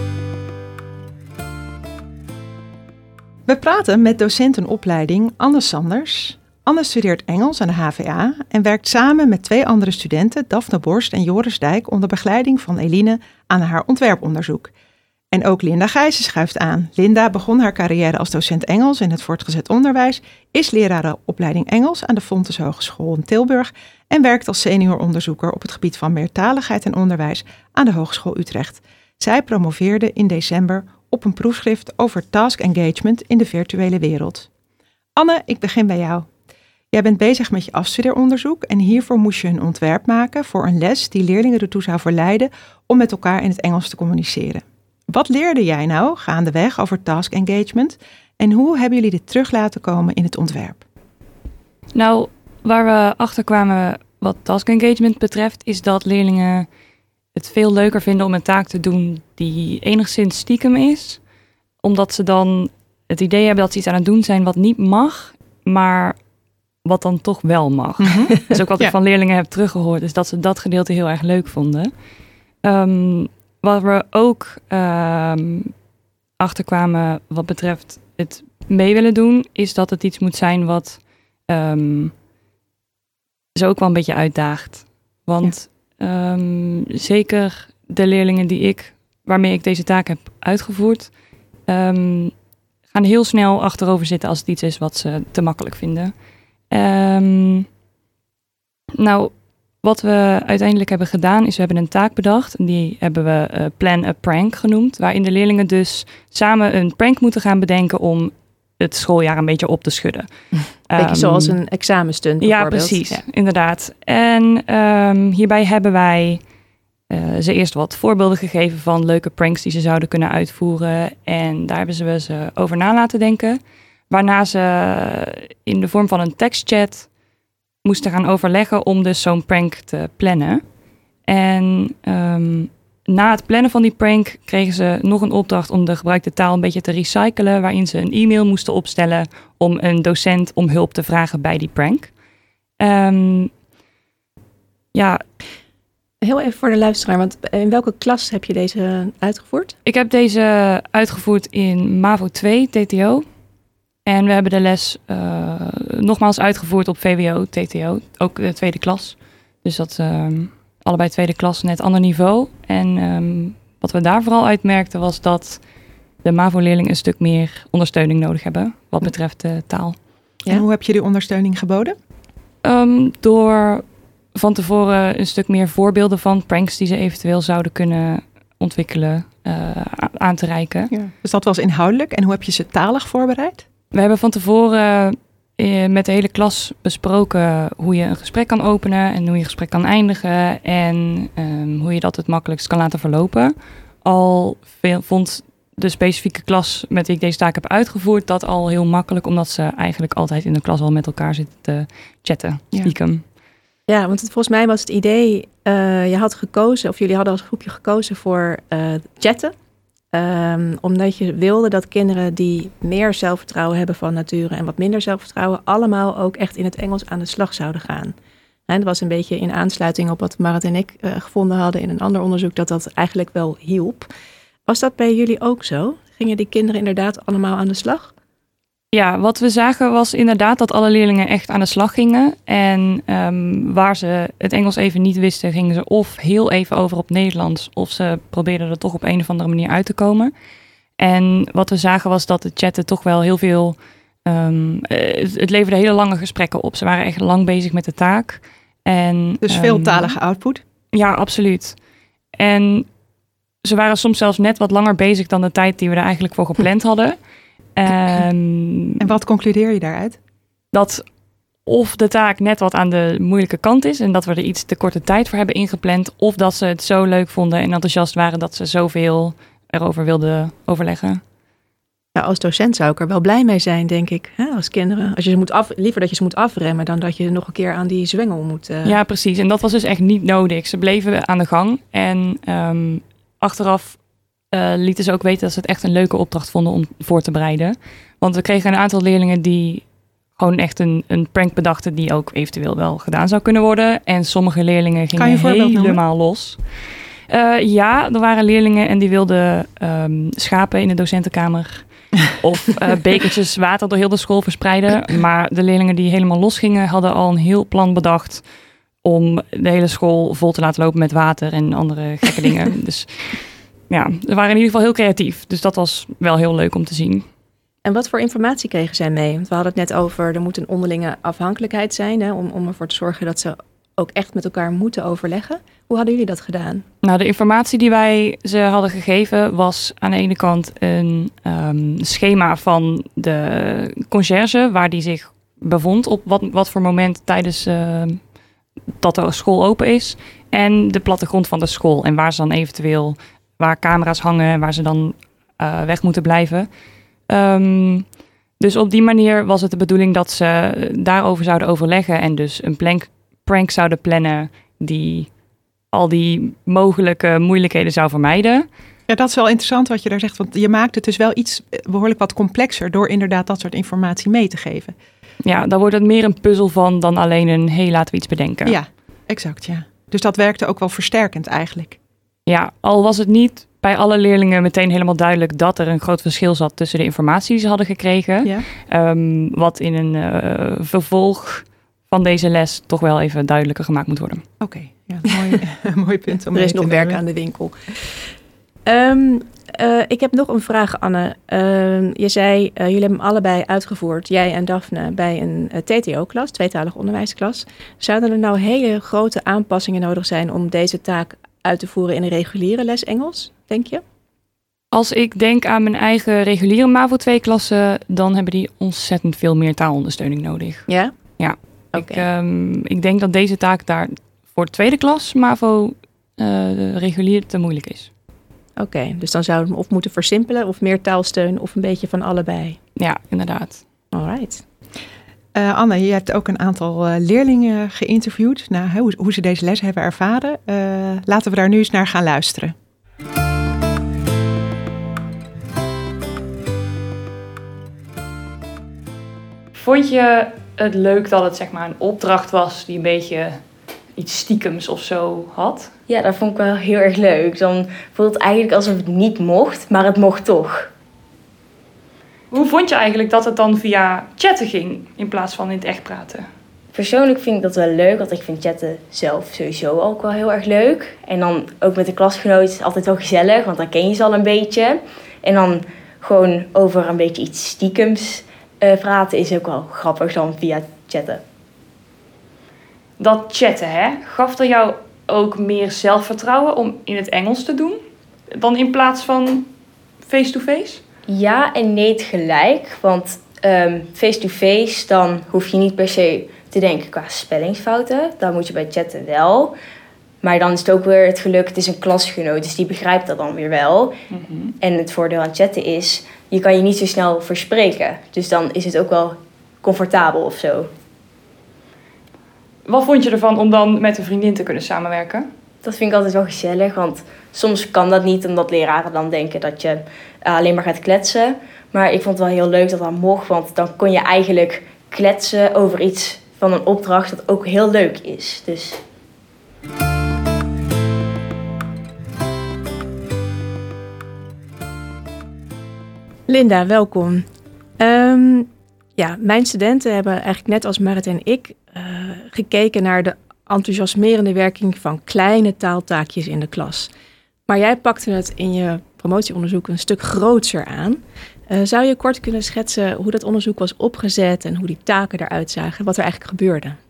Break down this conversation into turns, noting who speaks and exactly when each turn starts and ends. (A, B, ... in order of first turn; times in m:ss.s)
0:03.5-0:14.7 A
0:15.3-0:34.5 A
0:35.2-0:36.3 A
0:36.9-0:50.8 A
0:51.9-0:56.7 B
0:57.4-1:01.2 B
1:01.8-1:06.2 B
1:06.8-1:11.9 B
1:08.0-1:08.9 A
1:12.6-1:15.7 B
1:16.4-1:22.1 B
1:23.6-1:31.1 B
1:31.7-1:32.4 B
1:32.9-1:36.2 B
1:36.7-1:37.7 B
1:39.0-1:50.3 B
1:50.9-1:51.6 B
1:51.0-1:53.2 C
1:52.4-1:56.4 B
1:57.1-2:07.1 B
2:07.8-2:10.6 B
2:11.3-2:22.1 B
2:22.8-2:23.5 B
2:24.9-2:25.2 B
2:26.2-2:29.8 C
2:29.9-2:33.2 B
2:34.1-2:45.6 B
2:46.2-2:50.0 B
2:50.5-2:52.0 A
2:52.6-3:00.9 B
3:00.9-3:03.6 A
3:03.9-3:23.2 B
3:23.9-3:29.5 C
3:30.1-3:38.1 C
3:38.7-3:44.1 C
3:44.7-3:48.1 C
3:48.9-4:00.3 B
4:01.0-4:10.2 B
4:09.4-4:10.6 A
4:10.9-4:11.8 B
4:12.4-4:12.9 B
4:13.6-4:17.2 B
4:17.8-4:19.1 B
4:19.0-4:20.2 A
4:20.7-4:21.0 B
4:21.7-4:31.2 B
4:32.2-4:39.0 C
4:38.8-4:56.6 B
4:55.2-4:56.0 A
4:57.3-5:08.4 B
5:09.0-5:17.3 B
5:17.8-5:26.8 C
5:27.0-5:38.3 B
5:39.0-5:46.7 B
5:47.3-5:55.3 B
5:55.9-5:58.7 B
5:59.1-6:05.0 A
6:05.4-6:08.8 B
6:08.7-6:12.0 A
6:12.5-6:24.4 B
6:24.6-6:27.2 A
6:26.5-6:27.7 C
6:28.9-6:44.0 C
6:44.9-6:58.1 B
6:50.9-6:51.1 C
6:51.9-6:52.2 C
6:58.8-7:02.8 C
7:03.0-7:03.8 B
7:04.1-7:04.6 C
7:05.6-7:12.7 A
7:19.8-7:23.6 B
7:24.2-7:25.9 B
7:26.1-7:30.9 D
7:32.5-7:36.5 B
7:36.9-7:51.4 D
7:53.2-7:58.0 B
7:58.5-7:59.7 B
8:00.2-8:01.0 B
8:01.3-8:09.8 D
8:10.4-8:14.1 D
8:14.3-8:14.7 B
8:14.8-8:20.9 D
8:22.9-8:25.5 B
8:25.8-8:39.0 D
8:46.5-8:47.4 C
8:48.0-8:57.1 C
8:57.7-9:07.0 C